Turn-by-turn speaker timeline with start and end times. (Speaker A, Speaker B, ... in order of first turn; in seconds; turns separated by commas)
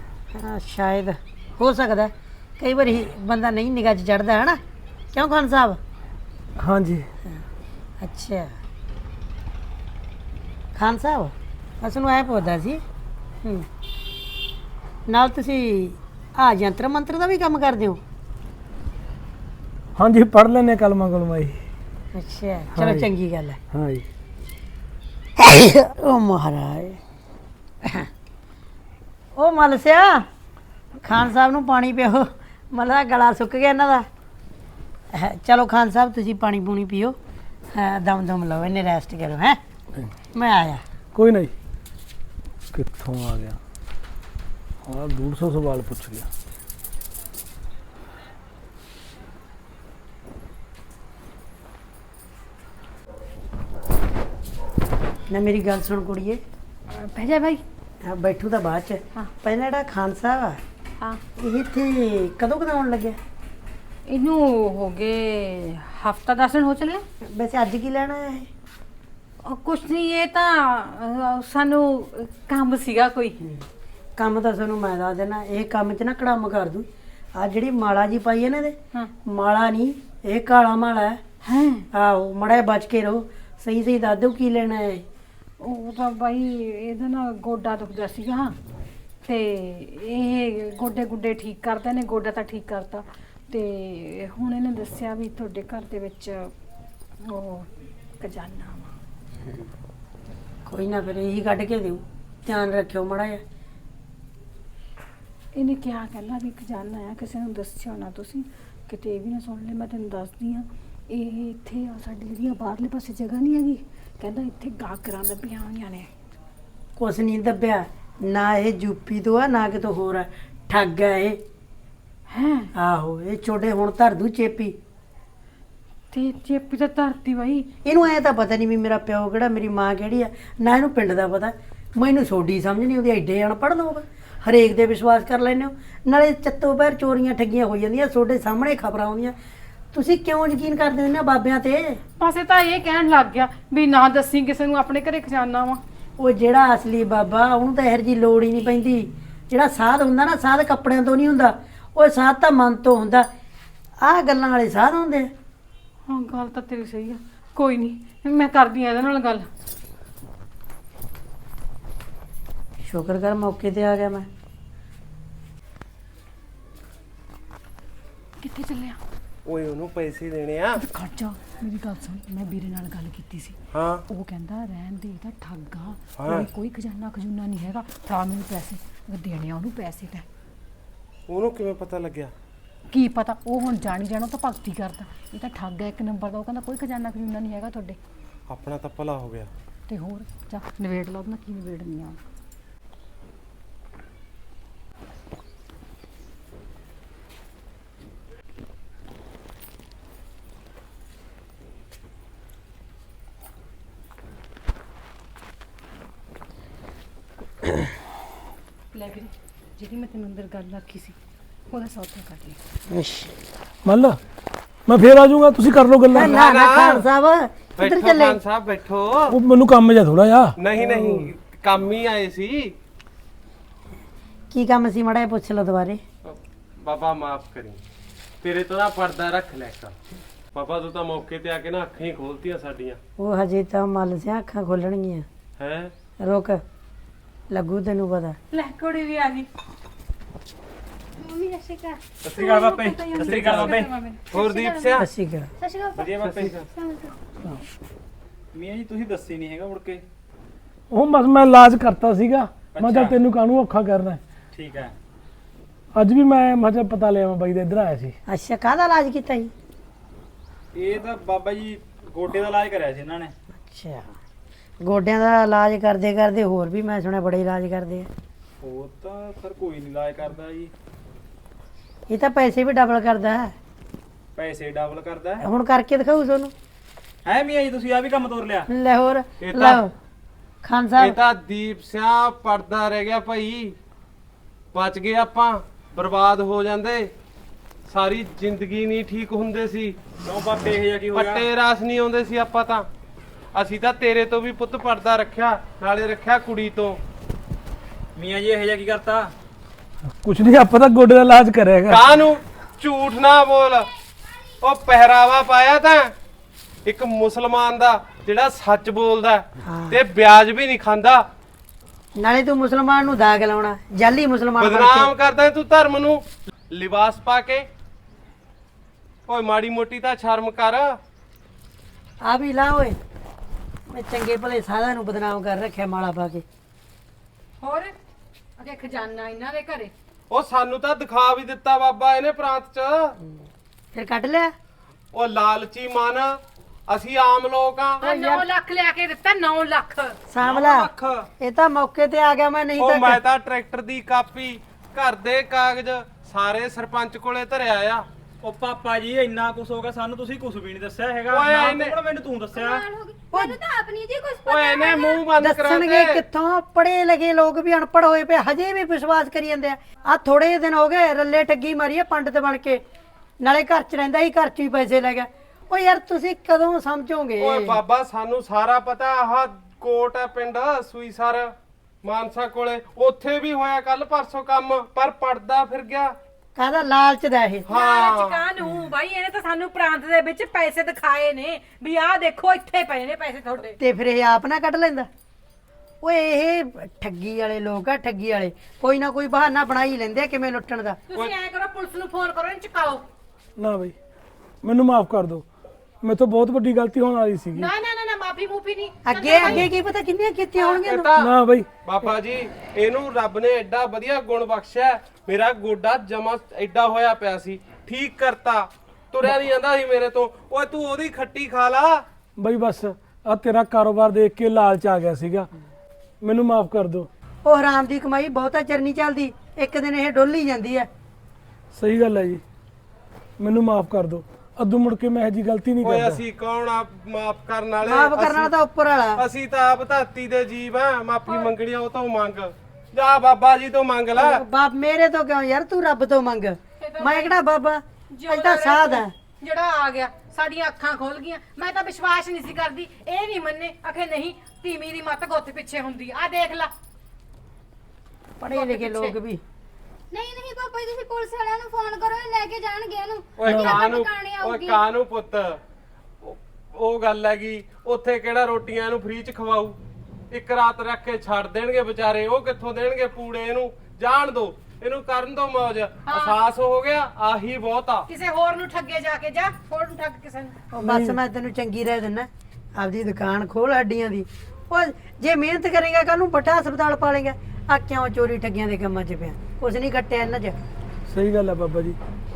Speaker A: 0.3-4.6, Speaker A: 5.1-5.8, Speaker B: 6.6-7.1, Speaker A: 8.0-8.5, Speaker A: 10.7-12.8, Speaker A: 15.1-18.0, Speaker B: 19.9-21.6, Speaker A: 22.1-23.6, Speaker B: 22.7-23.1, Speaker B: 23.7-24.1, Speaker A: 25.4-27.0, Speaker A: 29.4-30.2, Speaker A: 31.0-34.1, Speaker A: 35.1-37.2, Speaker A: 37.7-39.6, Speaker A: 40.3-40.8, Speaker B: 41.1-41.5, Speaker B: 42.7-43.6, Speaker B: 44.8-46.3, Speaker A: 55.3-56.4, Speaker C: 56.9-57.6, Speaker A: 58.0-60.6, Speaker A: 61.4-63.2, Speaker C: 64.1-67.0, Speaker A: 67.2-68.5, Speaker C: 69.4-73.4, Speaker A: 74.2-81.2, Speaker C: 81.4-81.9, Speaker A: 81.9-85.0, Speaker C: 85.6-88.5, Speaker C: 89.2-96.5, Speaker C: 97.2-98.9, Speaker A: 100.7-103.4, Speaker C: 105.5-116.1, Speaker A: 117.0-121.4, Speaker C: 122.3-122.7, Speaker A: 122.7-124.8, Speaker C: 126.1-127.7, Speaker A: 127.8-139.3, Speaker A: 139.9-142.0, Speaker C: 142.2-145.8, Speaker A: 146.2-153.3, Speaker A: 154.0-155.3, Speaker C: 156.1-159.5, Speaker A: 162.8-164.2, Speaker C: 168.4-169.0, Speaker D: 169.4-170.8, Speaker C: 170.8-173.6, Speaker D: 173.7-174.0, Speaker C: 174.1-180.2, Speaker D: 176.2-176.5, Speaker D: 181.3-182.3, Speaker C: 182.9-188.0, Speaker D: 188.5-189.5, Speaker C: 189.9-192.2, Speaker C: 208.9-211.2, Speaker C: 211.7-212.6, Speaker A: 212.9-213.3, Speaker B: 213.8-214.2, Speaker B: 214.9-216.4, Speaker A: 216.1-218.4, Speaker D: 216.1-217.0, Speaker D: 217.8-219.4, Speaker B: 219.3-221.3, Speaker D: 220.6-222.7, Speaker A: 224.5-226.0, Speaker D: 226.2-227.8, Speaker D: 228.4-230.0, Speaker D: 230.5-233.0, Speaker A: 233.2-235.3, Speaker D: 235.6-235.9, Speaker A: 236.2-236.6, Speaker A: 237.5-238.4, Speaker C: 238.5-239.5, Speaker E: 241.2-243.5, Speaker F: 242.2-243.9, Speaker C: 242.3-244.8, Speaker D: 244.3-245.1, Speaker A: 245.0-245.5, Speaker E: 245.6-246.1, Speaker F: 245.9-246.6, Speaker D: 246.2-246.6, Speaker E: 246.8-247.1, Speaker F: 248.5-250.0, Speaker B: 250.9-254.2, Speaker F: 252.7-253.1, Speaker F: 254.5-254.9, Speaker B: 255.9-258.1, Speaker A: 258.3-259.5, Speaker F: 260.7-263.3, Speaker A: 263.6-264.1, Speaker A: 264.8-268.1, Speaker F: 268.6-270.7, Speaker A: 272.1-273.5, Speaker F: 274.4-275.4, Speaker A: 275.4-276.5, Speaker F: 277.2-278.7, Speaker A: 278.7-279.9, Speaker D: 279.4-279.8, Speaker F: 279.5-279.8, Speaker A: 280.6-281.2, Speaker D: 281.0-283.8, Speaker D: 284.7-287.1, Speaker D: 287.9-290.0, Speaker F: 290.2-291.4, Speaker D: 291.1-292.9, Speaker D: 293.5-297.0, Speaker F: 298.1-299.3, Speaker B: 300.1-302.0, Speaker D: 301.9-303.9, Speaker D: 304.6-306.1, Speaker D: 306.8-311.2, Speaker A: 309.6-310.0, Speaker A: 312.2-315.1, Speaker D: 314.6-317.7, Speaker D: 319.3-321.0, Speaker A: 322.2-323.0, Speaker A: 323.9-326.4, Speaker C: 327.6-327.9, Speaker C: 328.6-329.9, Speaker D: 330.3-333.1, Speaker A: 333.9-334.5, Speaker D: 335.1-338.0, Speaker C: 338.0-340.2, Speaker A: 338.0-338.4, Speaker A: 340.3-343.2, Speaker F: 340.4-341.3, Speaker D: 342.8-348.1, Speaker F: 348.4-352.8, Speaker D: 351.3-351.9, Speaker E: 352.5-355.3, Speaker D: 354.4-356.2, Speaker A: 355.4-362.8, Speaker A: 363.4-367.8, Speaker D: 367.4-376.1, Speaker A: 376.6-377.7, Speaker D: 377.7-378.4, Speaker C: 377.7-383.8, Speaker A: 383.8-385.1, Speaker A: 386.0-391.0, Speaker C: 391.1-393.0, Speaker B: 393.6-393.9, Speaker B: 394.6-395.4, Speaker B: 396.0-397.7, Speaker C: 397.5-399.7, Speaker A: 399.0-401.1, Speaker C: 400.6-400.9, Speaker D: 400.8-401.3, Speaker B: 401.1-401.7, Speaker D: 401.8-412.0, Speaker B: 412.4-415.5, Speaker B: 416.2-417.1, Speaker A: 417.4-420.9, Speaker B: 421.7-422.4, Speaker B: 423.4-426.2, Speaker D: 425.8-428.5, Speaker A: 427.8-429.2, Speaker D: 429.1-434.4, Speaker A: 434.1-439.1, Speaker C: 436.8-437.4, Speaker C: 438.1-446.7, Speaker A: 448.4-449.4, Speaker C: 448.5-449.1, Speaker E: 450.1-454.8, Speaker D: 453.4-455.6, Speaker B: 453.5-453.8, Speaker D: 456.2-459.8, Speaker D: 460.3-468.1, Speaker C: 466.1-466.4, Speaker C: 468.1-470.6, Speaker A: 470.7-480.6, Speaker B: 470.8-471.2, Speaker B: 481.1-482.0